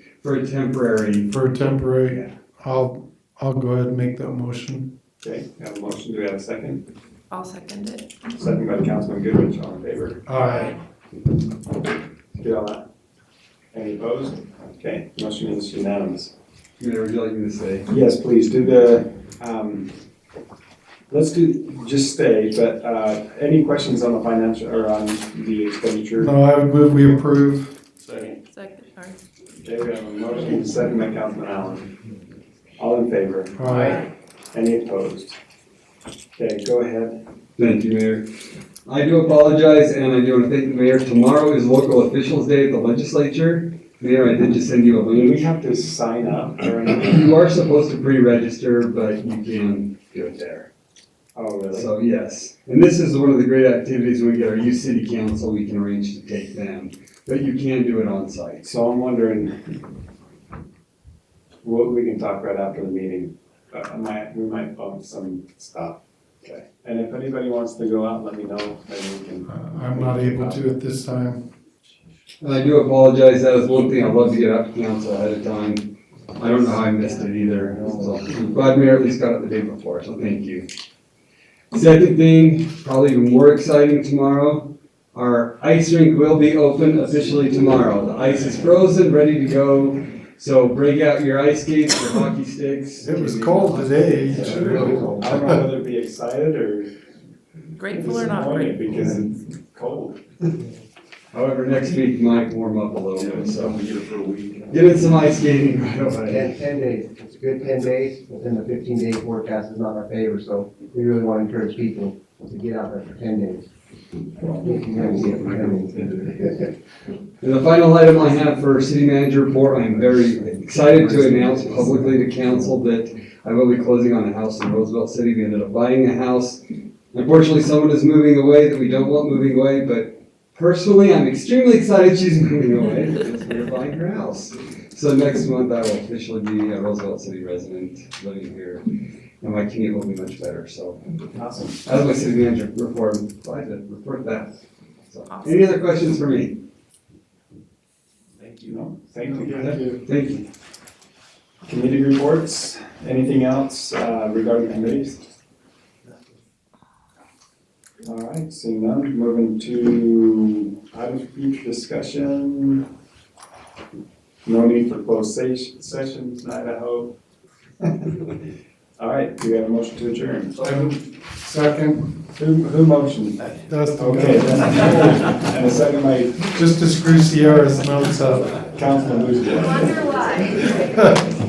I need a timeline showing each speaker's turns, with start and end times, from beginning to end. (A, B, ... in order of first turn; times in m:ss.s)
0:00.2-0:01.3 A
0:01.3-0:04.9 B
0:05.2-0:06.8 C
0:07.3-0:08.1 D
0:08.3-0:10.2 C
0:10.3-0:10.7 B
0:10.4-0:10.8 D
0:12.4-0:12.8 C
0:13.7-0:16.3 C
0:16.8-0:17.9 A
0:17.9-0:19.9 C
0:21.1-0:27.2 C
0:26.2-0:27.7 B
0:28.5-0:29.2 D
0:29.6-0:31.9 C
0:32.8-0:33.6 C
0:33.6-0:34.0 B
0:33.7-0:34.0 D
0:34.5-0:35.4 C
0:36.4-0:37.2 C
0:37.6-0:38.3 A
0:38.8-0:45.4 A
0:45.1-0:47.2 C
0:46.9-0:50.7 A
0:51.3-0:51.9 C
0:51.7-0:58.7 A
0:58.6-0:59.6 C
1:01.6-1:10.7 C
1:09.5-1:11.4 B
1:12.4-1:20.7 A
1:17.5-1:18.1 C
1:21.7-1:35.1 A
1:33.0-1:35.6 B
1:34.4-1:36.9 C
1:34.4-1:35.2 E
1:37.8-1:38.8 D
1:37.9-1:40.2 C
1:41.3-1:43.8 A
1:43.2-1:44.9 F
1:44.7-1:46.5 A
1:46.3-1:53.7 E
1:54.4-1:56.5 E
1:54.7-1:56.4 F
1:57.4-2:06.6 A
2:00.8-2:01.9 E
2:07.1-2:18.8 A
2:19.4-2:21.0 A
2:21.3-2:21.8 C
2:21.8-2:26.6 A
2:25.2-2:25.8 D
2:28.6-2:29.8 C
2:29.4-2:30.0 B
2:29.5-2:30.4 A
2:31.6-2:35.2 C
2:38.0-2:42.8 C
2:44.4-2:47.2 C
2:49.0-2:50.6 C
2:50.6-2:50.9 A
2:50.6-2:52.1 B
2:52.3-2:56.5 C
2:53.7-2:55.0 B
2:56.5-2:58.6 B
2:58.7-3:00.4 C
3:00.9-3:01.2 B